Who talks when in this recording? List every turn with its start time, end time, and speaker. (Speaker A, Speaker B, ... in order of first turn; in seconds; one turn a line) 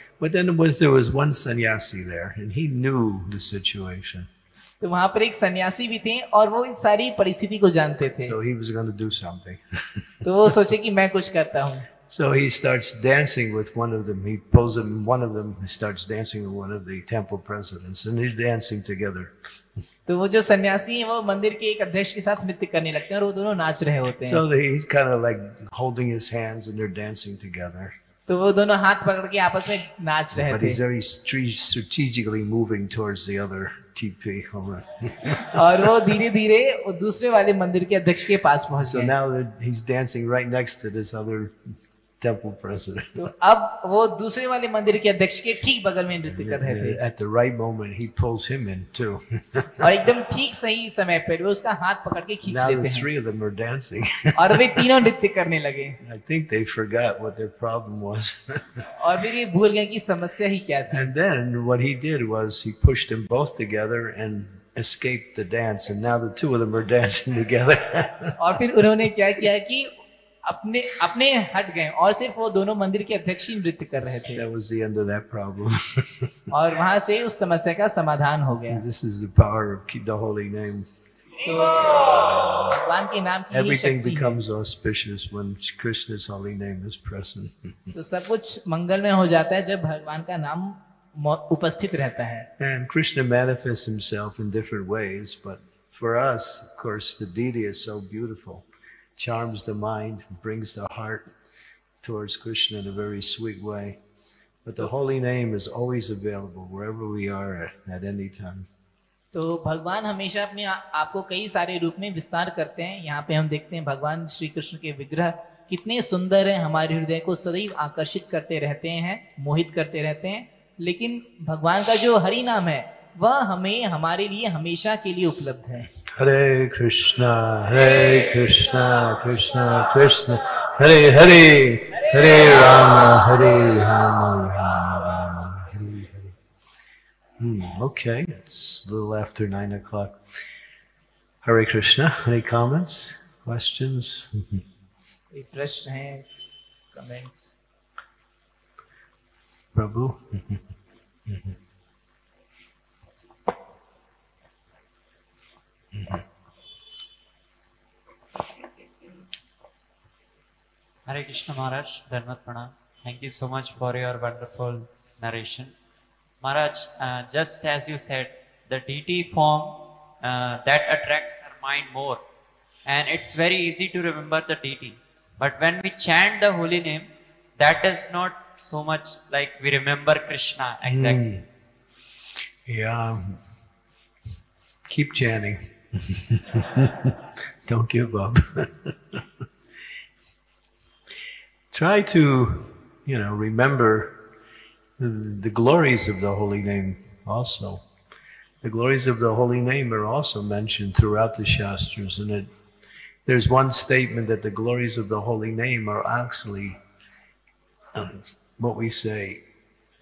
Speaker A: 0.2-4.3
Speaker B: 4.8-8.3
Speaker A: 8.2-10.5
Speaker B: 10.2-11.9
Speaker A: 12.1-19.3
Speaker B: 20.1-24.4
Speaker A: 24.2-27.9
Speaker B: 28.3-30.8
Speaker A: 30.3-35.9
Speaker B: 35.5-39.1
Speaker A: 38.8-43.3
Speaker B: 43.2-47.0
Speaker A: 46.3-50.0
Speaker B: 49.8-53.1
Speaker A: 52.5-54.9
Speaker B: 54.4-56.0
Speaker A: 56.0-58.9
Speaker B: 59.0-61.1
Speaker A: 60.9-68.6
Speaker B: 68.4-69.9
Speaker B: 70.5-74.4
Speaker A: 74.3-76.3
Speaker B: 76.5-78.8
Speaker A: 78.7-80.9
Speaker B: 81.4-84.4
Speaker A: 81.8-82.7
Speaker A: 83.5-87.9
Speaker B: 87.9-92.5
Speaker A: 92.6-98.7
Speaker A: 99.2-101.3
Speaker A: 102.0-104.0
Speaker A: 104.7-108.7
Speaker B: 109.3-125.9
Speaker A: 126.0-136.4
Speaker A: 137.4-140.2
Speaker A: 141.4-144.6
Speaker B: 145.3-146.3
Speaker B: 146.9-147.6
Speaker A: 149.7-150.6
Speaker A: 151.3-151.6
Speaker A: 155.9-156.2
Speaker C: 161.1-165.7
Speaker C: 166.4-172.2
Speaker C: 172.9-181.3
Speaker A: 180.9-181.5
Speaker A: 182.7-183.4
Speaker A: 184.9-189.4
Speaker A: 191.7-194.2
Speaker A: 195.0-197.8
Speaker A: 198.6-202.5
Speaker A: 203.3-206.8
Speaker A: 207.9-209.4